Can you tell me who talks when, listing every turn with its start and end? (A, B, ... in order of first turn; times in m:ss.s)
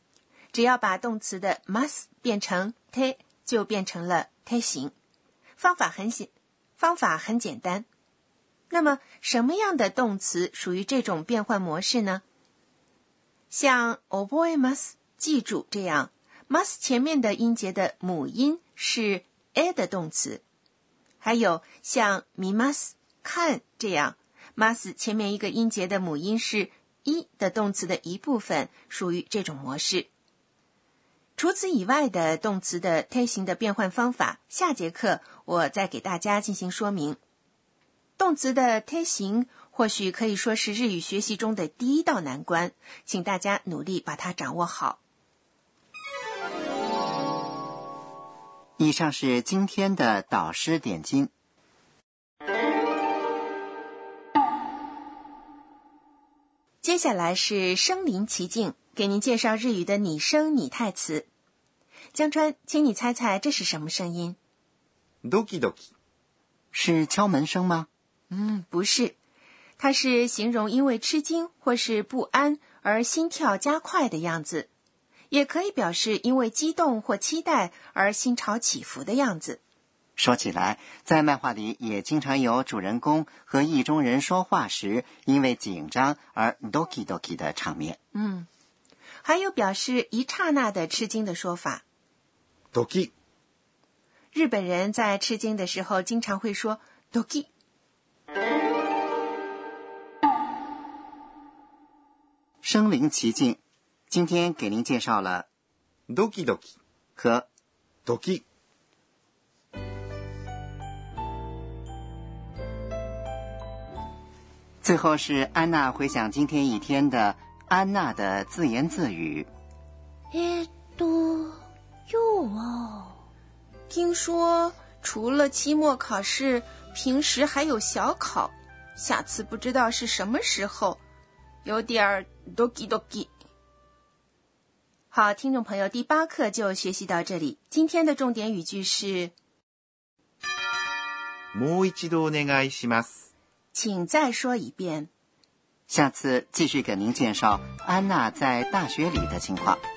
0:00.5-0:04.9 A
0:05.6-0:07.8 A
0:08.7-0:12.2 A
0:13.5-0:20.4 A
0:21.2-0:30.1 A
0:31.4-0:37.2 A
0:38.2-0:45.0 A
0:48.8-0:51.3 B
0:56.8-1:01.3 A
1:02.1-1:04.4 A
1:05.2-1:05.9 C
1:06.7-1:07.9 B
1:08.3-1:09.2 A
1:09.8-1:14.7 A
1:15.3-1:19.6 A
1:20.2-1:28.0 B
1:28.1-1:28.5 A
1:29.2-1:31.8 A
1:32.7-1:33.1 C
1:34.3-1:37.5 A
1:42.6-1:43.6 B
1:44.1-1:45.5 B
1:46.1-1:46.8 C
1:47.2-1:47.5 B
1:48.0-1:48.4 C
1:54.8-1:59.5 B
2:00.3-2:01.5 D
2:00.8-2:01.2 A
2:02.1-2:03.1 D
2:03.9-2:11.0 A
2:11.6-2:13.3 A
2:15.1-2:19.3 A
2:21.5-2:23.3 C
2:23.7-2:25.1 A
2:25.9-2:29.8 B